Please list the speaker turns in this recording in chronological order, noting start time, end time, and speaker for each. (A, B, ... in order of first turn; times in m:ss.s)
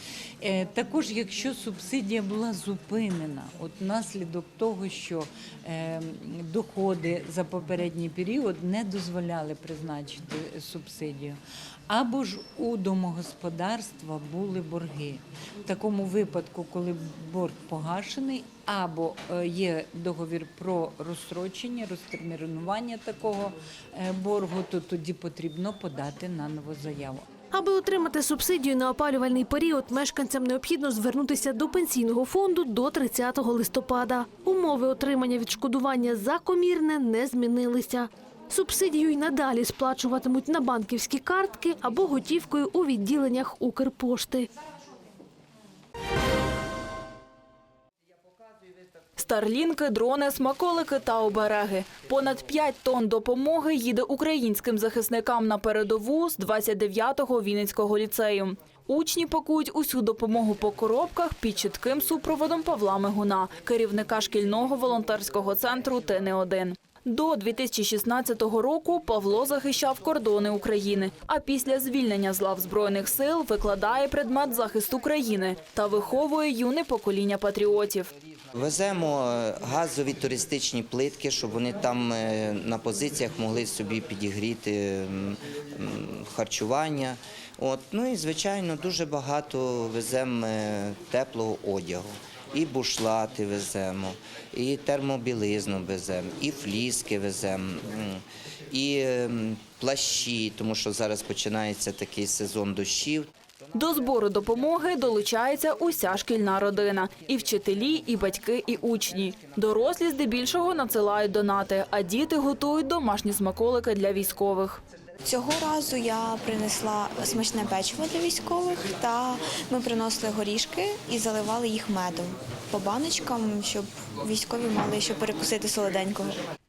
0:00.4-0:27.2 A
0:27.5-0:44.5 B
0:49.2-1:18.1 C
1:18.5-1:43.3 D
1:43.7-1:54.8 C
1:55.2-2:06.3 E